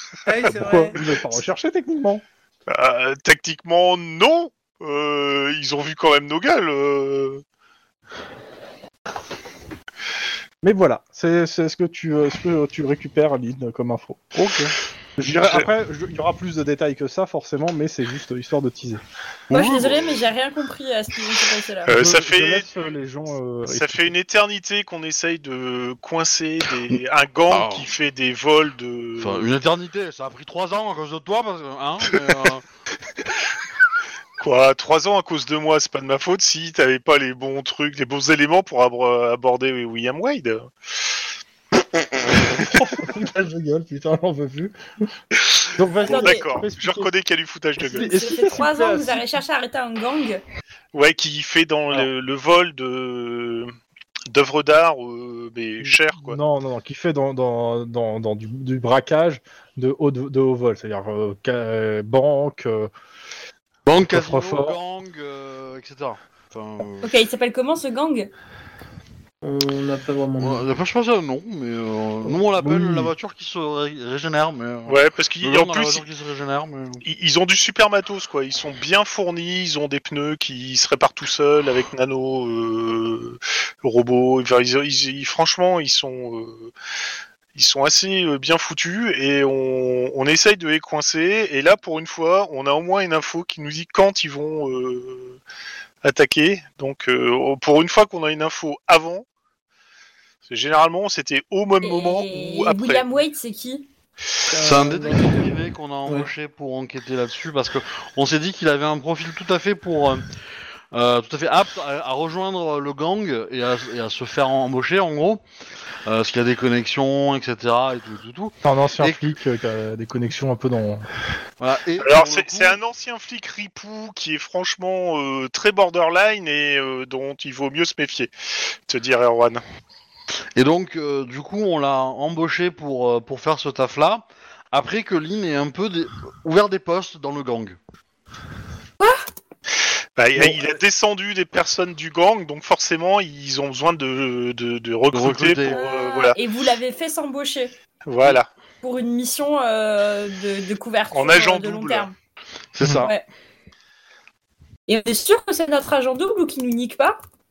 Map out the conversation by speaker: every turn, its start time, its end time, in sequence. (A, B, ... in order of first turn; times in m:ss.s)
0:00.3-0:01.0 A
0:00.5-0:02.2 B
0:02.7-0:07.4 C
0:10.6-0:14.2 B
0:14.3-0:14.8 D
0:15.2-0:19.0 B
0:19.5-0:20.2 D
0:19.5-0:21.9 E
0:21.9-0:22.7 C
0:21.9-0:24.1 B
0:23.7-0:29.4 C
0:27.5-0:27.9 D
0:29.2-0:32.6 D
0:34.4-0:40.7 C
0:42.3-0:44.7 B
0:45.8-0:47.1 B
0:46.0-0:46.5 E
0:46.0-0:48.1 C
0:47.8-0:49.2 B
0:47.9-0:50.4 E
0:50.9-0:53.7 C
0:54.3-0:56.4 C
0:55.8-1:02.9 B
1:03.9-1:07.1 D
1:04.0-1:04.8 B
1:07.0-1:08.3 E
1:09.4-1:10.7 A
1:10.4-1:17.0 D
1:12.5-1:13.1 B
1:14.9-1:16.0 C
1:17.0-1:26.7 C
1:27.5-1:35.4 C
1:36.0-1:39.3 C
1:40.5-1:43.0 C
1:41.8-1:43.9 E
1:44.5-1:45.4 A
1:44.6-1:50.2 D
1:50.9-1:55.4 D
1:56.0-1:59.2 D
1:58.6-2:01.1 B
2:01.6-2:02.8 D
2:02.0-2:09.6 C
2:10.6-2:17.8 D
2:20.2-2:26.4 C
2:25.1-2:25.8 D
2:25.7-2:27.7 E
2:28.1-2:28.5 C
2:28.8-2:32.2 E
2:31.1-2:32.1 C
2:32.8-2:33.1 D
2:34.9-2:37.2 E